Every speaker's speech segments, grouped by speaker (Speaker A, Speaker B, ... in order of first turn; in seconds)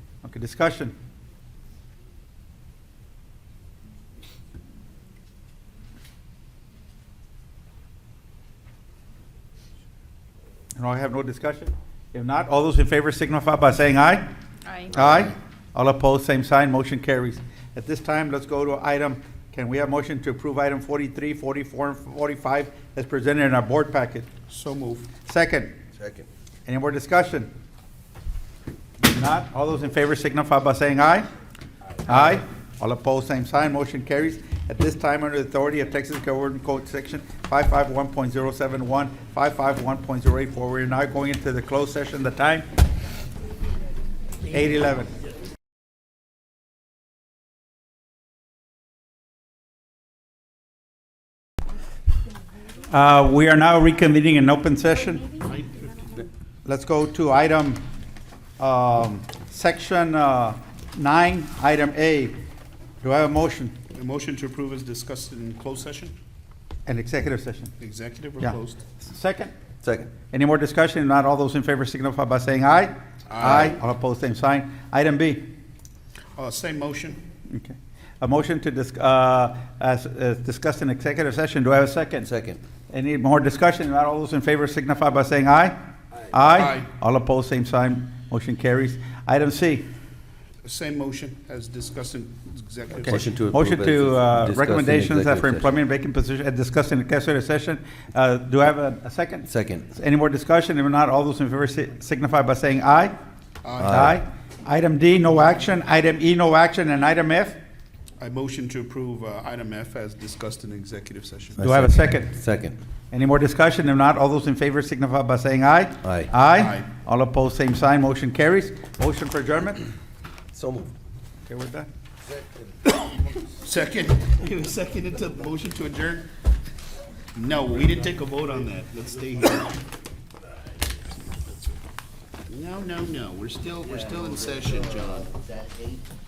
Speaker A: 0.2-0.9, 10.8-14.2, 14.9-24.3, 25.2-25.8, 26.7-27.5, 29.0-31.3, 32.1-42.7, 44.5-45.1, 52.9-55.3, 56.7-57.8, 58.6-62.4, 63.0-63.8, 66.9-67.7, 68.4-69.5, 70.2-75.5, 77.5-82.3, 82.9-85.8, 86.3-89.9, 93.1-103.1, 103.9-107.6, 111.6-112.4, 113.1-119.8, 121.5-121.9
Speaker B: 24.5-25.1, 55.4-56.2, 63.9-66.1, 67.8-68.8, 73.3-73.8, 76.4-77.2, 86.5-86.9, 90.6-93.2, 103.6-104.1, 108.2-111.6, 116.5-116.9, 123.6-126.3, 127.3-129.8, 132.5-135.4
Speaker C: 26.0-26.3, 69.8-70.1, 82.2-82.6, 93.1-95.7, 99.5-99.9, 103.8-104.2, 111.6-112.8, 116.0-116.3, 120.5-120.9